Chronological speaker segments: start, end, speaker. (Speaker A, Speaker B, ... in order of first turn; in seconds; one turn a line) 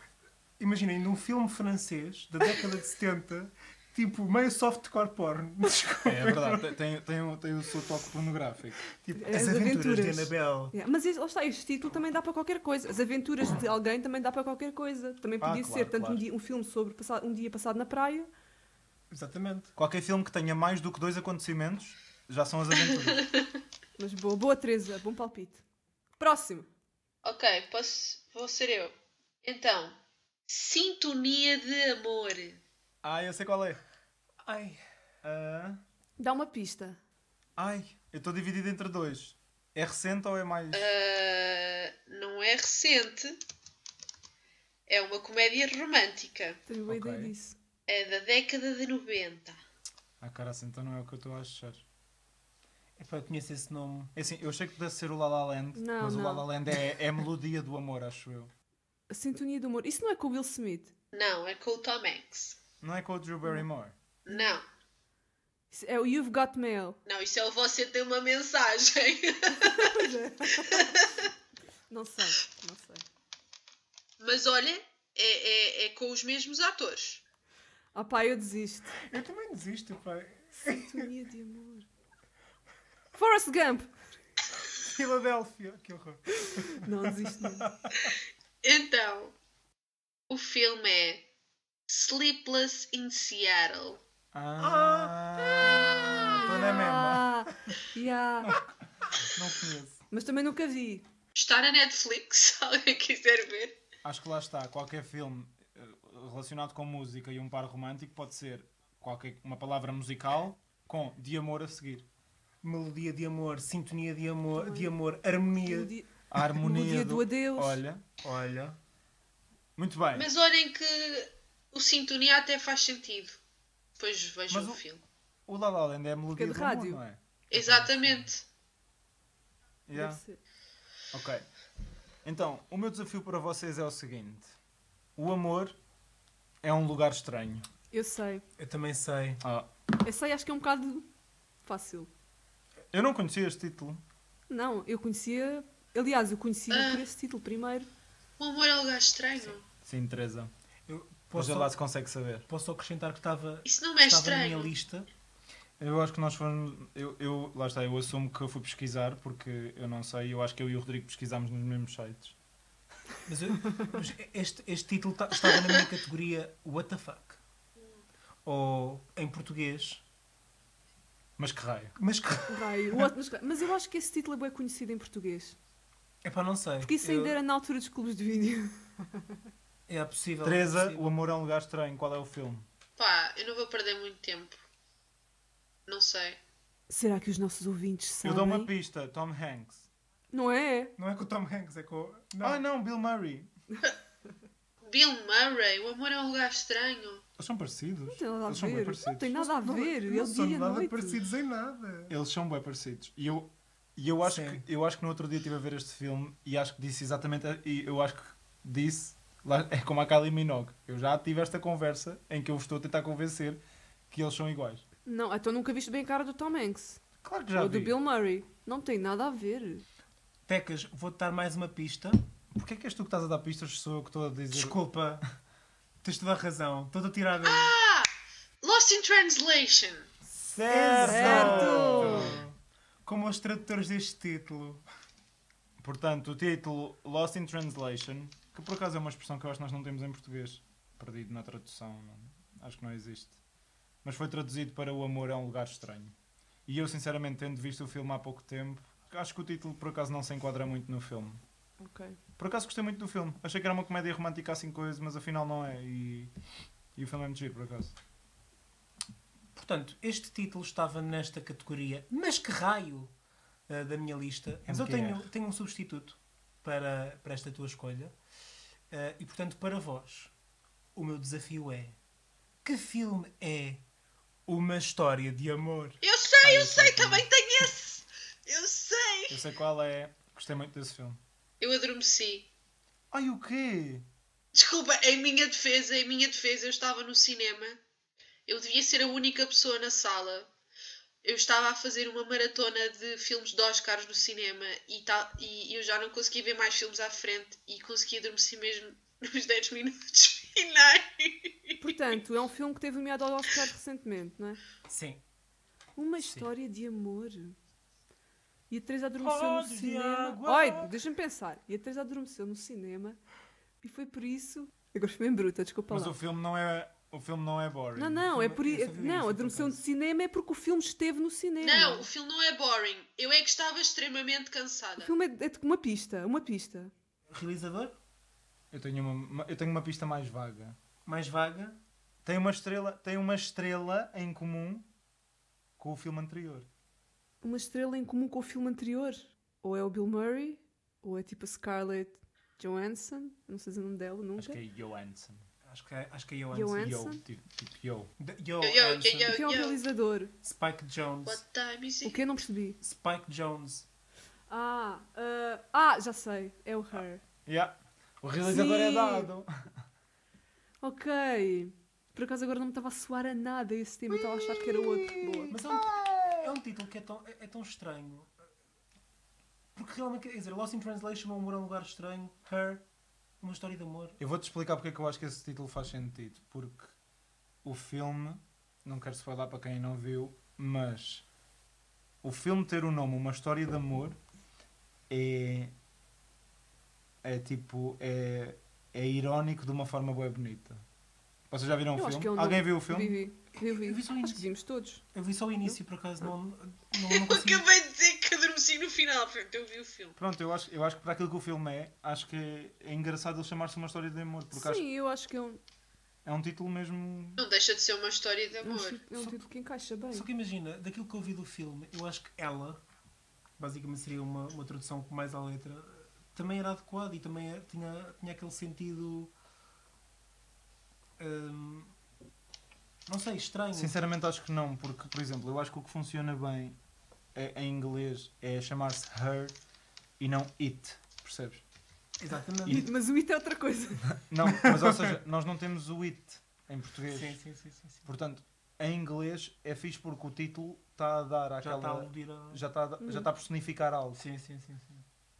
Speaker A: 0.6-6.7
Speaker B: 6.0-8.8
Speaker A: 8.9-10.7
Speaker C: 9.2-18.3
Speaker B: 15.4-16.2
Speaker A: 19.1-19.7
Speaker B: 19.8-23.3
Speaker C: 24.0-25.6
Speaker C: 26.2-26.7
Speaker D: 27.2-30.0
Speaker D: 30.5-32.6
Speaker B: 33.0-33.8
Speaker A: 34.4-34.8
Speaker B: 35.2-35.8
Speaker C: 36.2-37.0
Speaker B: 37.6-40.9
Speaker D: 40.7-43.4
Speaker D: 44.9-46.6
Speaker C: 46.7-47.6
Speaker B: 46.9-47.3
Speaker D: 47.9-49.6
Speaker B: 50.2-51.8
Speaker A: 53.0-54.1
Speaker B: 54.1-58.5
Speaker C: 55.8-56.5
Speaker C: 59.1-60.9
Speaker D: 61.1-62.6
Speaker B: 62.8-63.9
Speaker D: 64.2-64.6
Speaker C: 65.7-67.0
Speaker D: 67.0-70.0
Speaker C: 69.5-71.1
Speaker D: 70.6-71.2
Speaker C: 71.9-73.0
Speaker D: 74.2-77.2
Speaker C: 77.9-79.0
Speaker A: 79.1-81.1
Speaker C: 80.6-81.9
Speaker C: 83.1-83.9
Speaker A: 84.8-88.1
Speaker C: 86.4-87.7
Speaker D: 88.6-89.3
Speaker D: 90.3-91.2
Speaker D: 91.9-94.0
Speaker B: 94.3-97.3
Speaker A: 94.6-96.8
Speaker C: 96.1-98.5
Speaker B: 98.4-100.0
Speaker C: 100.1-101.0
Speaker D: 101.3-103.8
Speaker B: 104.0-112.0
Speaker A: 112.6-115.9
Speaker C: 114.5-114.9
Speaker C: 115.6-117.8
Speaker B: 116.3-118.0
Speaker A: 118.2-118.8
Speaker B: 119.8-120.3
Speaker D: 120.1-123.4
Speaker D: 124.0-125.0
Speaker B: 124.5-124.8
Speaker B: 125.5-128.3
Speaker C: 126.3-127.0
Speaker D: 127.5-128.4
Speaker B: 129.9-130.2
Speaker C: 129.9-130.4
Speaker B: 131.1-131.4
Speaker B: 132.2-134.5
Speaker B: 135.2-135.8
Speaker B: 136.6-137.6
Speaker C: 137.9-138.4
Speaker A: 138.6-139.4
Speaker B: 139.4-139.7
Speaker C: 140.0-141.1
Speaker C: 141.6-142.1
Speaker B: 142.9-144.0
Speaker C: 144.5-147.9
Speaker D: 146.7-147.0
Speaker D: 148.4-149.6
Speaker B: 149.8-150.5
Speaker A: 150.9-151.7
Speaker B: 151.3-152.4
Speaker A: 152.5-155.1
Speaker D: 153.6-154.7
Speaker B: 155.8-162.3
Speaker A: 163.2-167.4
Speaker A: 168.4-170.0
Speaker B: 171.4-171.9
Speaker A: 172.0-173.1
Speaker C: 172.5-175.6
Speaker A: 176.2-177.4
Speaker C: 176.8-179.3
Speaker A: 179.9-181.1
Speaker B: 180.4-182.7
Speaker D: 183.0-184.6
Speaker D: 185.9-186.4
Speaker C: 186.9-188.7
Speaker B: 188.2-189.9
Speaker C: 190.3-190.9
Speaker A: 191.0-192.6
Speaker B: 192.4-193.5
Speaker D: 194.8-197.2
Speaker B: 197.4-199.4
Speaker C: 198.1-201.2
Speaker A: 199.3-202.1
Speaker B: 202.1-214.8
Speaker A: 204.2-204.6
Speaker C: 215.1-217.0
Speaker B: 217.2-218.0
Speaker C: 217.5-219.8
Speaker A: 220.5-222.2
Speaker B: 222.5-224.8
Speaker A: 224.5-225.2
Speaker A: 226.0-227.7
Speaker D: 227.4-228.1
Speaker D: 228.6-230.1
Speaker B: 230.3-232.5
Speaker A: 230.7-234.8
Speaker C: 231.0-232.4
Speaker B: 235.8-243.4
Speaker B: 244.0-246.1
Speaker B: 246.7-251.4
Speaker C: 251.8-252.2
Speaker B: 252.4-256.3
Speaker B: 256.9-257.9
Speaker A: 259.5-263.1
Speaker A: 263.7-268.1
Speaker B: 264.7-265.2
Speaker A: 268.9-270.3
Speaker A: 270.9-272.0
Speaker A: 272.6-273.8
Speaker A: 274.5-276.0
Speaker D: 276.0-279.4
Speaker B: 276.4-277.3
Speaker B: 279.3-281.2
Speaker D: 281.6-282.5
Speaker B: 283.1-284.1
Speaker D: 284.5-287.8
Speaker D: 288.5-290.5
Speaker D: 291.2-301.8
Speaker C: 301.8-304.6
Speaker A: 304.9-305.2
Speaker C: 306.0-307.6
Speaker A: 306.2-306.5
Speaker C: 308.7-313.2
Speaker A: 309.2-310.9
Speaker C: 313.8-316.1
Speaker B: 315.9-318.2
Speaker C: 317.9-322.1
Speaker A: 318.2-319.8
Speaker D: 321.6-325.1
Speaker C: 325.0-326.9
Speaker A: 327.3-327.9
Speaker B: 328.7-330.8
Speaker A: 331.1-331.8
Speaker B: 332.2-334.9
Speaker B: 335.8-336.7
Speaker C: 337.4-344.6
Speaker B: 344.4-345.4
Speaker A: 345.6-347.0
Speaker C: 346.5-347.2
Speaker B: 346.8-348.1
Speaker A: 348.2-349.4
Speaker D: 348.6-349.8
Speaker C: 349.2-350.3
Speaker A: 350.4-351.4
Speaker D: 351.2-352.2
Speaker C: 352.0-352.8
Speaker A: 352.8-353.9
Speaker C: 354.5-357.2
Speaker B: 357.4-359.7
Speaker C: 358.4-359.3
Speaker C: 360.8-365.5
Speaker B: 364.1-366.5
Speaker A: 365.5-368.5
Speaker A: 369.7-372.8
Speaker A: 373.4-374.2
Speaker B: 374.2-376.9
Speaker B: 377.6-381.2
Speaker B: 382.2-384.2
Speaker B: 385.1-385.7
Speaker B: 387.2-390.8
Speaker B: 391.5-393.2
Speaker C: 391.9-395.0
Speaker A: 393.6-394.4
Speaker A: 395.1-397.6
Speaker D: 397.0-400.2
Speaker B: 400.2-404.8
Speaker C: 404.5-405.6
Speaker B: 406.2-407.4
Speaker D: 407.4-409.0
Speaker C: 408.6-410.3
Speaker A: 410.1-412.8
Speaker A: 413.6-419.3
Speaker A: 421.2-421.9
Speaker A: 423.1-423.9
Speaker B: 423.7-426.8
Speaker B: 427.3-429.6
Speaker B: 430.2-431.6
Speaker A: 432.2-432.9
Speaker C: 432.6-434.1
Speaker B: 434.0-437.4
Speaker A: 434.5-435.1
Speaker A: 437.1-438.1
Speaker B: 438.1-444.2
Speaker A: 441.6-442.6
Speaker C: 443.0-443.3
Speaker A: 444.1-445.0